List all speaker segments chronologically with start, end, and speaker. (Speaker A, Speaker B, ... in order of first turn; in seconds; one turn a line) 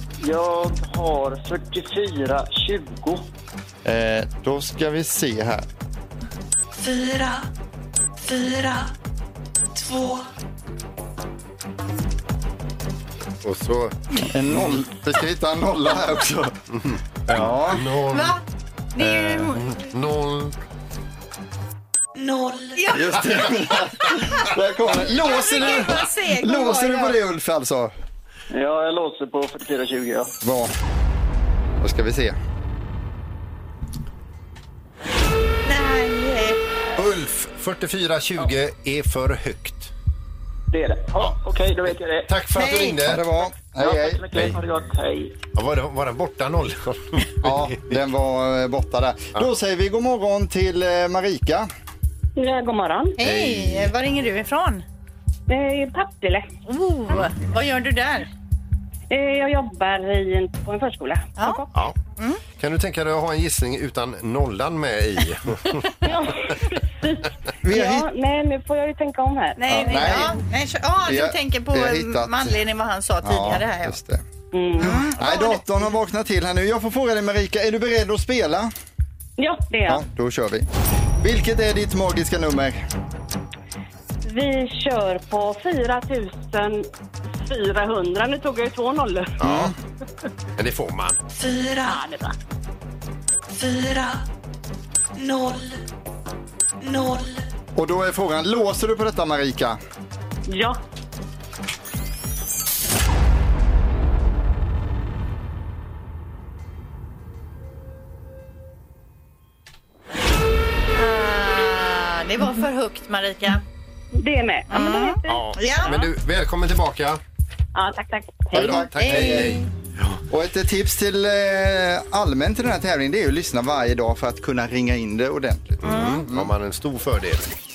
Speaker A: 0.2-3.3
Speaker B: 3.8-5.7
Speaker C: 6.8-7.5
Speaker C: 8.2-8.9
Speaker C: 9.7-10.2
Speaker D: 13.4-13.9
Speaker B: 14.2-16.5
Speaker D: 16.7-18.4
Speaker B: 17.3-17.9
Speaker E: 18.1-18.4
Speaker E: 18.9-19.9
Speaker D: 19.0-20.5
Speaker C: 22.2-23.0
Speaker E: 22.7-23.1
Speaker B: 22.9-27.9
Speaker E: 25.1-27.1
Speaker A: 28.5-30.3
Speaker B: 30.4-30.7
Speaker B: 31.8-32.4
Speaker E: 35.6-36.6
Speaker D: 37.0-39.9
Speaker A: 40.7-42.3
Speaker D: 42.3-43.2
Speaker E: 42.5-43.1
Speaker B: 43.0-44.3
Speaker A: 43.6-45.3
Speaker D: 45.5-47.9
Speaker B: 47.4-51.7
Speaker F: 52.4-53.1
Speaker E: 53.2-54.8
Speaker D: 53.2-53.9
Speaker F: 55.5-56.5
Speaker E: 56.6-58.3
Speaker F: 59.1-61.7
Speaker E: 61.4-61.6
Speaker D: 62.6-65.9
Speaker F: 66.0-70.4
Speaker B: 67.6-68.1
Speaker E: 69.6-74.0
Speaker B: 69.7-70.3
Speaker B: 71.0-72.6
Speaker B: 73.2-74.2
Speaker F: 74.5-75.0
Speaker E: 74.8-75.8
Speaker B: 74.8-78.7
Speaker F: 79.4-80.0
Speaker B: 79.9-80.7
Speaker B: 81.2-82.8
Speaker F: 84.2-86.8
Speaker F: 87.4-89.4
Speaker D: 89.4-89.7
Speaker B: 89.4-89.7
Speaker D: 90.6-91.2
Speaker C: 91.3-92.1
Speaker F: 91.9-92.3
Speaker C: 93.5-94.2
Speaker C: 95.2-95.8
Speaker C: 96.8-97.4
Speaker B: 97.8-99.8
Speaker F: 100.5-100.8
Speaker E: 110.9-113.6
Speaker F: 114.1-116.1
Speaker E: 114.7-115.9
Speaker D: 115.3-117.2
Speaker F: 117.7-118.8
Speaker E: 118.5-119.6
Speaker D: 118.5-120.2
Speaker B: 119.0-119.5
Speaker B: 120.3-126.5
Speaker D: 125.8-127.5
Speaker E: 125.8-126.2